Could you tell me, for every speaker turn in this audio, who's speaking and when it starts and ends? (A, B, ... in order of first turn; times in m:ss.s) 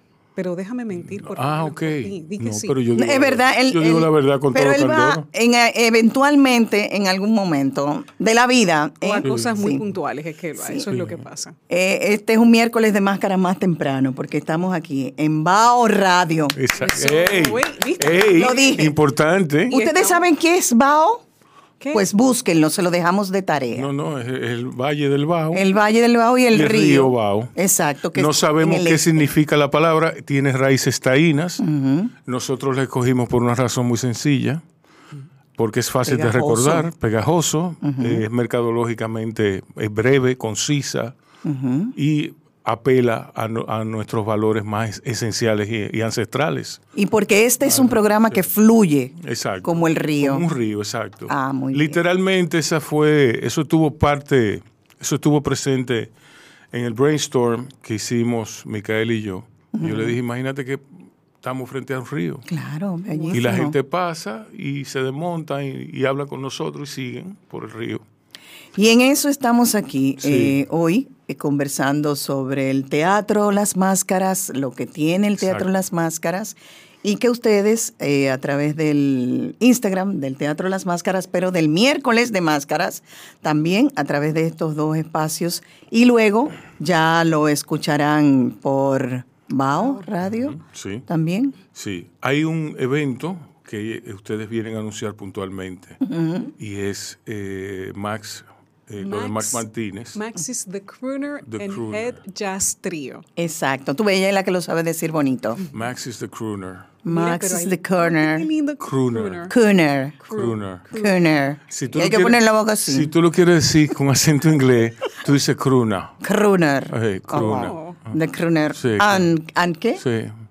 0:00.4-0:02.8 A
0:01.0-0:05.3 B
0:02.9-0:09.8 C
0:09.0-0:11.6 A
0:09.2-0:09.6 B
0:10.6-0:10.9 C
0:10.9-0:11.3 B
0:11.7-0:16.6 C
0:16.6-0:19.7 B
0:16.8-0:18.8 A
0:18.1-0:19.0 C
0:19.7-0:21.2 C
0:19.7-0:20.2 A
0:21.8-0:22.1 A
0:21.9-0:23.9 C
0:23.7-0:25.6 B
0:25.5-0:29.2 C
0:26.5-0:27.5 B
0:28.1-0:31.6 B
0:31.6-0:32.1 C
0:32.3-0:34.6 B
0:35.6-0:41.2 B
0:36.0-0:36.9 C
0:37.8-0:38.2 C
0:41.4-0:42.0 C
0:42.0-0:46.8 B
0:47.0-0:50.5 C
0:47.6-0:48.5 B
0:49.2-0:56.1 B
0:51.3-0:52.0 C
0:56.7-1:00.8 B
0:59.7-1:00.2 C
1:01.4-1:02.5 B
1:02.5-1:03.8 C
1:03.1-1:03.5 A
1:03.3-1:08.0 B
1:08.8-1:31.6 C
1:10.2-1:10.6 B
1:15.4-1:15.7 B
1:29.8-1:30.1 A
1:30.3-1:31.1 B
1:31.7-1:36.0 B
1:36.0-1:36.5 C
1:36.6-1:40.2 B
1:39.0-1:43.2 A
1:41.5-1:42.2 B
1:43.4-1:45.6 C
1:45.7-1:47.0 B
1:47.0-1:48.5 C
1:47.1-1:49.5 A
1:48.8-1:49.5 B
1:49.5-1:50.2 C
1:50.2-1:51.2 A
1:50.3-1:50.9 B
1:50.9-1:53.1 C
1:51.7-1:56.2 B
1:56.2-2:00.0 C
1:56.9-1:58.1 B
1:57.4-1:58.0 A
1:58.8-1:59.3 B
2:00.0-2:00.3 B